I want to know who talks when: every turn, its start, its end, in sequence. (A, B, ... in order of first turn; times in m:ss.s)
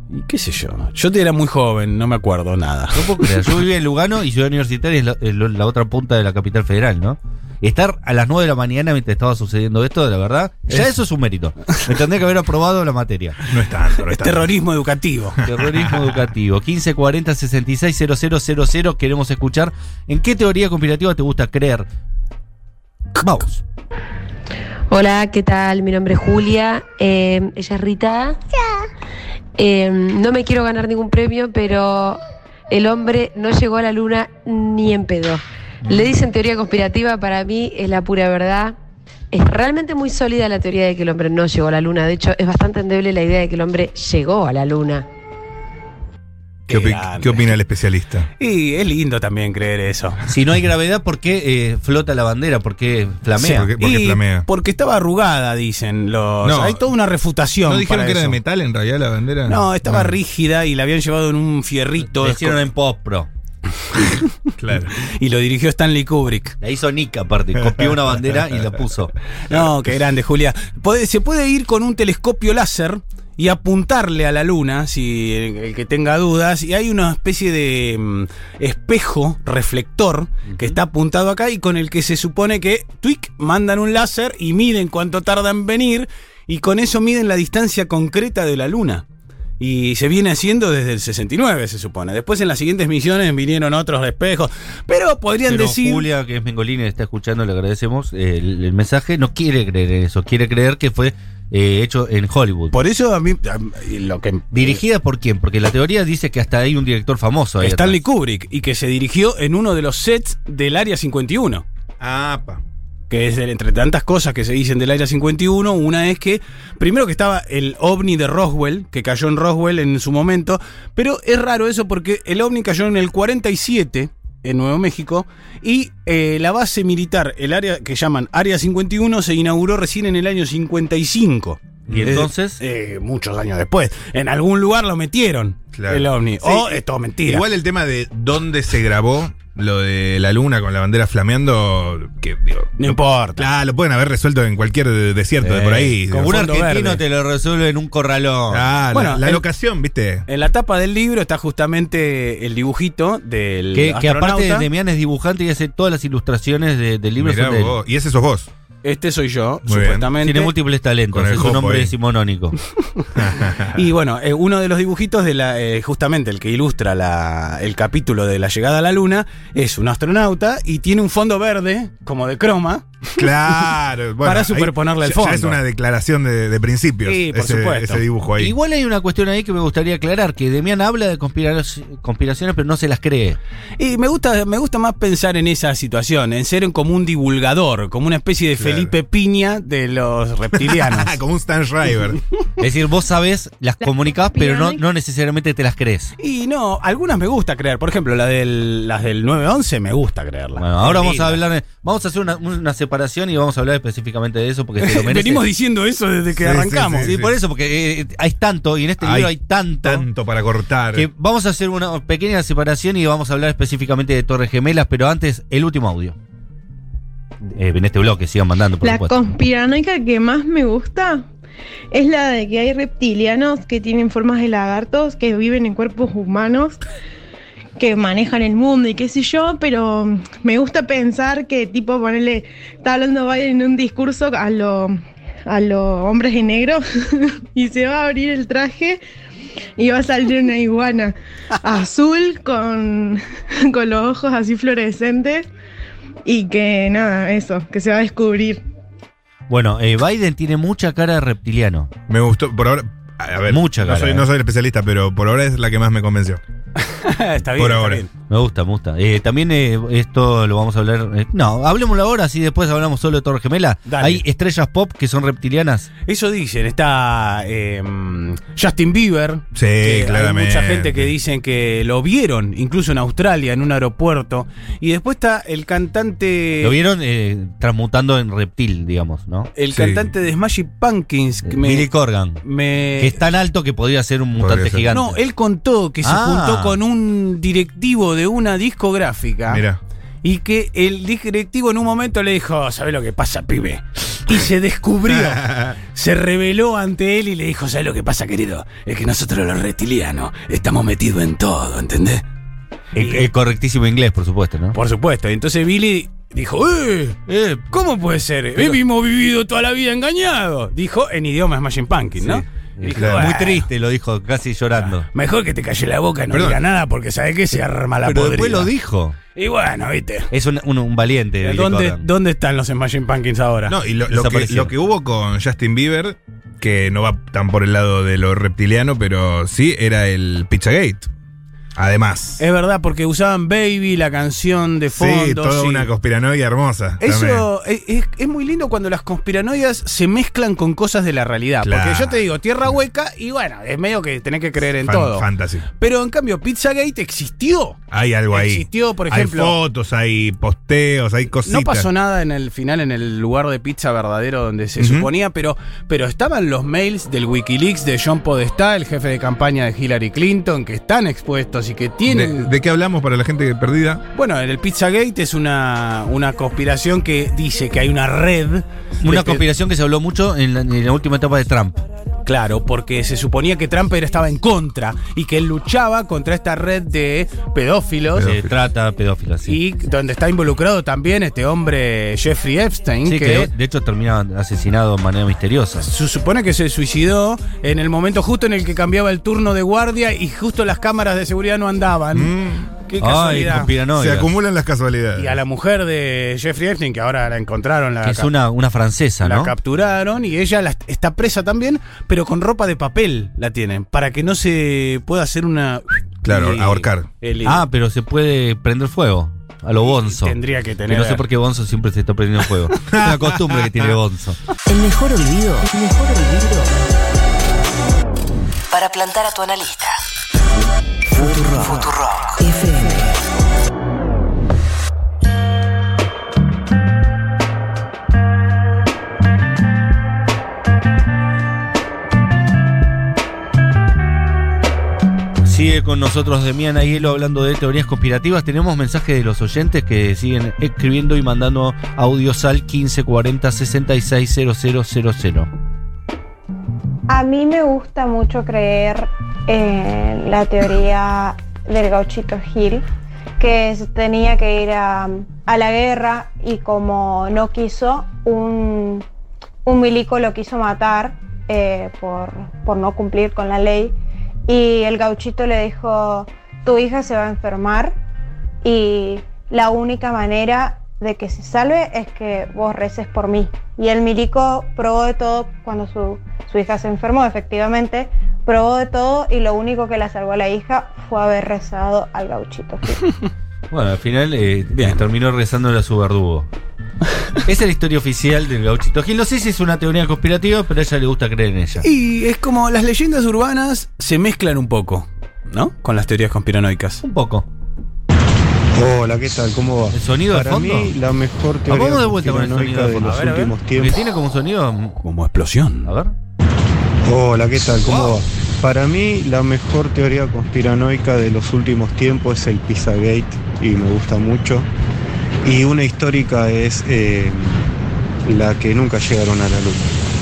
0:00.1-0:03.5 A
0:02.9-0:13.4 B
0:13.5-0:14.5 C
0:14.0-0:15.4 A
0:15.4-0:21.9 B
0:15.4-0:16.0 C
0:23.2-0:23.6 B
0:24.9-0:28.4 D
0:29.6-0:32.2 D
0:32.7-0:38.8 D
0:39.3-0:45.0 D
0:46.7-0:47.5 A
0:46.7-0:48.3 C
0:48.4-0:50.2 A
0:50.3-0:53.7 B
0:53.4-0:54.5 C
0:53.8-0:58.4 A
0:56.4-0:56.8 C
0:57.7-1:00.2 C
0:59.5-1:02.7 A
1:02.1-1:03.3 B
1:03.9-1:04.3 A
1:04.6-1:04.9 C
1:05.0-1:06.6 A
1:06.6-1:09.1 B
1:09.5-1:29.0 A
1:20.5-1:20.8 B
1:29.6-1:36.1 A
1:35.5-1:42.8 B
1:42.7-1:44.8 A
1:44.5-1:48.0 B
1:47.6-1:51.6 A
1:52.0-1:52.6 C
1:53.1-2:17.4 A
2:11.9-2:12.6 B
2:15.8-2:26.3 C
2:22.8-2:23.5 A
2:25.4-2:28.7 B
2:26.1-2:27.0 A
2:28.5-2:30.2 C
2:28.9-2:29.4 A
2:30.3-2:34.7 A
2:33.7-2:37.8 B
2:37.2-2:38.5 C
2:38.8-2:40.5 A
2:39.7-2:40.1 C
2:40.2-2:42.6 B
2:41.1-2:41.9 C
2:43.2-2:43.8 C
2:43.7-2:53.3 A
2:53.2-2:58.5 C
2:54.2-2:55.6 A
2:57.1-2:58.0 A
2:58.4-3:03.4 B
3:03.8-3:11.2 A
3:08.6-3:08.9 C
3:10.6-3:12.2 C
3:12.6-3:16.2 B
3:13.9-3:14.8 E
3:16.2-3:21.4 A
3:20.6-3:25.4 B
3:24.8-3:27.1 A
3:26.4-3:27.4 C
3:27.0-3:30.1 B
3:29.0-3:31.1 C
3:30.9-3:36.2 B
3:37.4-3:39.2 B
3:38.8-3:41.3 E
3:41.9-3:46.8 E
3:47.8-3:59.0 E
3:59.8-4:05.5 E
4:06.2-4:08.6 E
4:09.5-4:11.9 B
4:12.1-4:16.4 C
4:13.5-4:14.3 B
4:16.8-4:18.1 A
4:17.6-4:18.0 C
4:18.3-4:25.9 B
4:23.9-4:24.2 A
4:26.1-4:36.8 A
4:29.5-4:31.1 C
4:36.6-4:39.5 B
4:39.6-4:41.9 A
4:39.7-4:40.1 C
4:41.5-4:42.4 B
4:42.4-4:43.2 A
4:43.0-4:45.2 B
4:44.4-4:44.9 C
4:44.9-4:49.6 A
4:46.0-4:46.8 B
4:49.5-4:49.8 C
4:50.2-5:02.2 A
4:55.2-4:55.8 C
5:03.0-5:04.8 B
5:03.0-5:03.3 A
5:04.7-5:07.2 A
5:07.3-5:07.7 B
5:07.7-5:13.7 A
5:12.2-5:15.1 B
5:13.0-5:13.3 C
5:14.8-5:18.7 A
5:16.3-5:16.6 C
5:18.0-5:19.2 B
5:19.4-5:20.3 A
5:20.3-5:22.1 B
5:21.4-5:23.8 A
5:23.7-5:31.1 C
5:24.1-5:24.7 B
5:31.8-5:32.4 C
5:32.4-5:35.9 A
5:35.0-5:37.4 C
5:37.0-5:45.2 A
5:41.6-5:42.2 C
5:44.8-5:45.7 C
5:45.8-5:47.8 A
5:47.9-5:51.9 C
5:48.3-5:49.6 A
5:51.4-6:02.5 A
5:54.8-5:55.1 C
6:02.1-6:04.0 C
6:04.1-6:09.4 A
6:09.0-6:11.8 B
6:12.3-6:18.3 A
6:18.2-6:18.5 C
6:18.2-6:19.6 B
6:19.4-6:23.5 A
6:23.0-6:25.9 B
6:25.8-6:32.3 A
6:32.1-6:32.7 C
6:32.9-6:33.7 A
6:33.0-6:34.3 B
6:33.9-6:35.4 C
6:35.2-6:38.3 A
6:38.0-6:39.5 B
6:39.2-6:47.6 A
6:46.2-6:47.1 C
6:47.4-6:50.4 B
6:49.8-6:51.2 A
6:50.9-6:54.4 B
6:52.9-6:53.8 C
6:54.7-6:56.7 F
6:58.7-7:00.0 F
7:01.2-7:03.2 F
7:15.4-7:25.5 B
7:27.1-7:32.8 G
7:33.4-7:39.0 G
7:39.6-7:44.0 G
7:44.5-7:48.0 G
7:48.6-8:03.0 G
8:03.7-8:06.5 B
8:04.7-8:05.0 A
8:07.4-8:11.9 B
8:11.8-8:17.0 A
8:17.0-8:17.5 B
8:18.7-8:24.0 H
8:19.9-8:21.0 B
8:21.7-8:25.0 B
8:23.0-8:23.6 A
8:25.0-8:25.9 A
8:25.8-8:26.2 B
8:27.0-8:34.7 H
8:27.8-8:28.2 B
8:35.4-8:37.7 H
8:38.2-8:40.0 H